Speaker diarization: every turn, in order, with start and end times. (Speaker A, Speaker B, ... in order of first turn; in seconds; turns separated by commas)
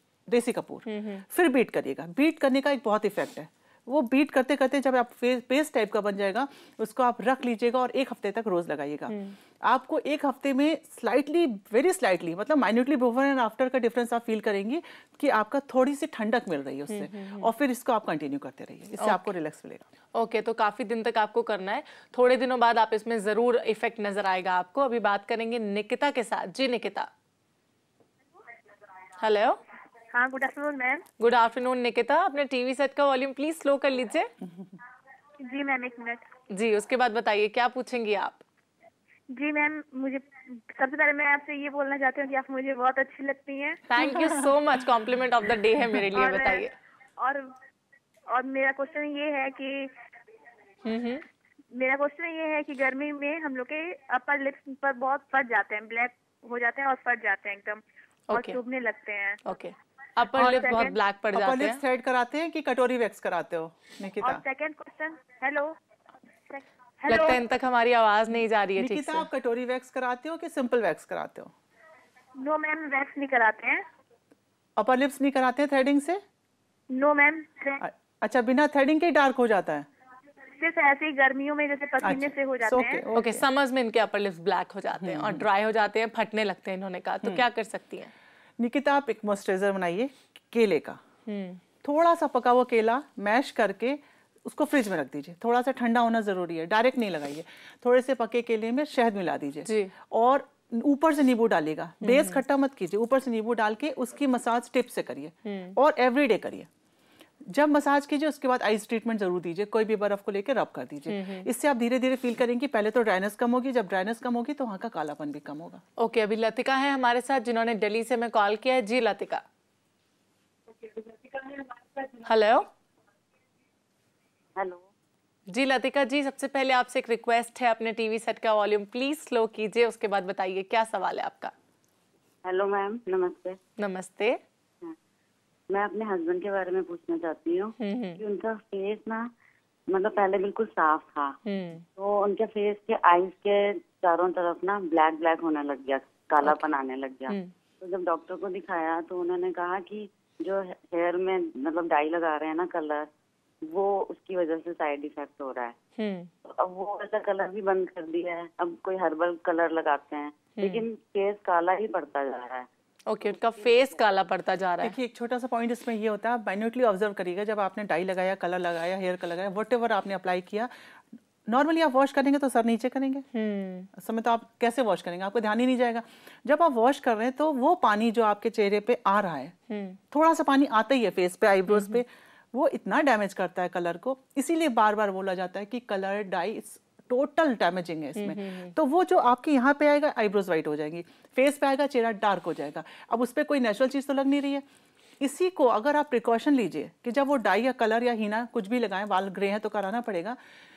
Speaker A: 0.3-19.8, Speaker B: 0.9-1.2, Speaker B: 9.1-9.4, Speaker B: 16.9-17.5, Speaker B: 19.0-19.3, Speaker B: 20.1-27.1, Speaker B: 29.2-29.6, Speaker C: 30.1-31.0, Speaker B: 31.2-34.3, Speaker C: 35.4-36.2, Speaker B: 36.5-38.4, Speaker C: 39.3-43.9, Speaker B: 43.9-46.7, Speaker C: 46.1-47.5, Speaker C: 48.3-49.9, Speaker B: 50.9-51.2, Speaker C: 51.7-59.4, Speaker B: 58.3-58.6, Speaker B: 59.5-61.8, Speaker A: 60.4-60.7, Speaker C: 60.4-61.0, Speaker A: 61.3-64.4, Speaker C: 64.2-65.8, Speaker C: 66.5-67.4, Speaker B: 67.1-69.3, Speaker A: 68.8-71.5, Speaker C: 72.4-73.8, Speaker A: 74.8-76.2, Speaker C: 76.9-77.8, Speaker A: 77.8-79.9, Speaker C: 80.5-83.0, Speaker A: 82.0-83.5, Speaker B: 83.2-88.1, Speaker A: 85.0-85.5, Speaker A: 88.6-91.0, Speaker B: 91.3-91.6, Speaker A: 91.8-106.7, Speaker B: 99.7-99.9, Speaker B: 102.0-102.4, Speaker B: 105.5-105.8, Speaker A: 107.5-115.8, Speaker B: 111.1-111.5, Speaker B: 116.0-119.4, Speaker B: 122.2-122.7, Speaker D: 124.6-124.9, Speaker B: 125.5-131.5, Speaker D: 132.4-133.6, Speaker B: 133.8-134.4, Speaker D: 135.7-139.3, Speaker B: 137.8-138.2, Speaker D: 139.9-141.4, Speaker B: 141.4-141.8, Speaker D: 142.0-153.1, Speaker B: 146.4-146.7, Speaker D: 153.6-155.8, Speaker B: 156.0-156.3, Speaker D: 156.4-162.7, Speaker B: 160.6-160.8, Speaker B: 163.1-164.9, Speaker A: 164.8-170.7, Speaker A: 171.5-173.2, Speaker B: 173.3-173.9, Speaker A: 173.9-179.6, Speaker B: 179.7-180.0, Speaker A: 180.1-194.6, Speaker B: 181.7-182.0, Speaker B: 188.2-188.7, Speaker A: 195.2-200.4